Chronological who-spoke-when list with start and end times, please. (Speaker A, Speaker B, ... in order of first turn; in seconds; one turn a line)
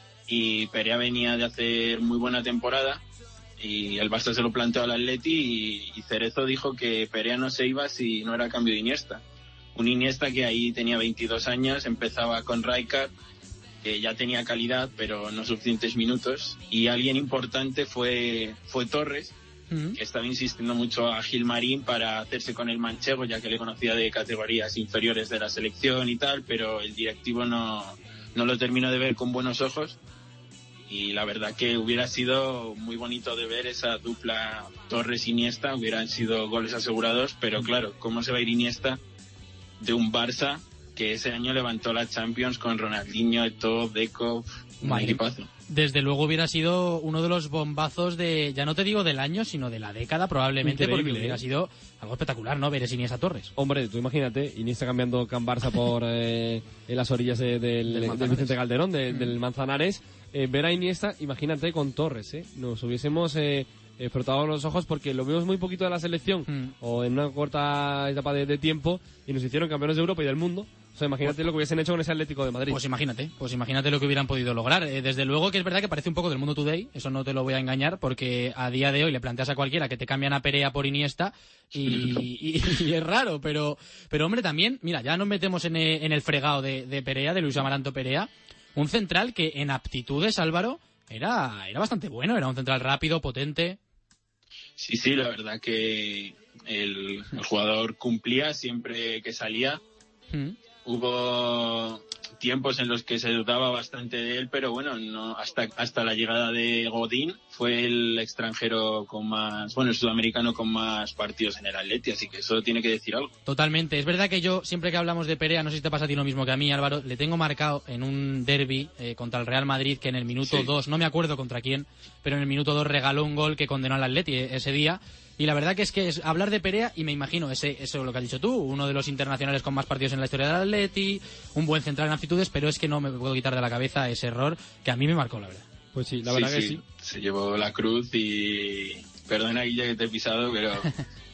Speaker A: 0.3-3.0
Speaker A: 3.6-9.2
Speaker A: 9.8-13.1
Speaker A: 13.8-19.4
Speaker B: 19.7-20.0
Speaker A: 20.0-30.0
Speaker A: 30.9-39.0
Speaker A: 39.8-45.5
Speaker B: 44.8-53.5
Speaker C: 50.6-51.4
Speaker C: 53.6-72.8
Speaker B: 57.9-58.6
Speaker B: 66.5-66.7
Speaker B: 72.7-93.8
Speaker A: 94.8-99.8
Speaker B: 100.3-100.6
Speaker A: 100.8-113.3
Speaker B: 113.5-135.7
Speaker A: 120.5-120.7
Speaker C: 135.9-136.8
Speaker A: 136.2-140.9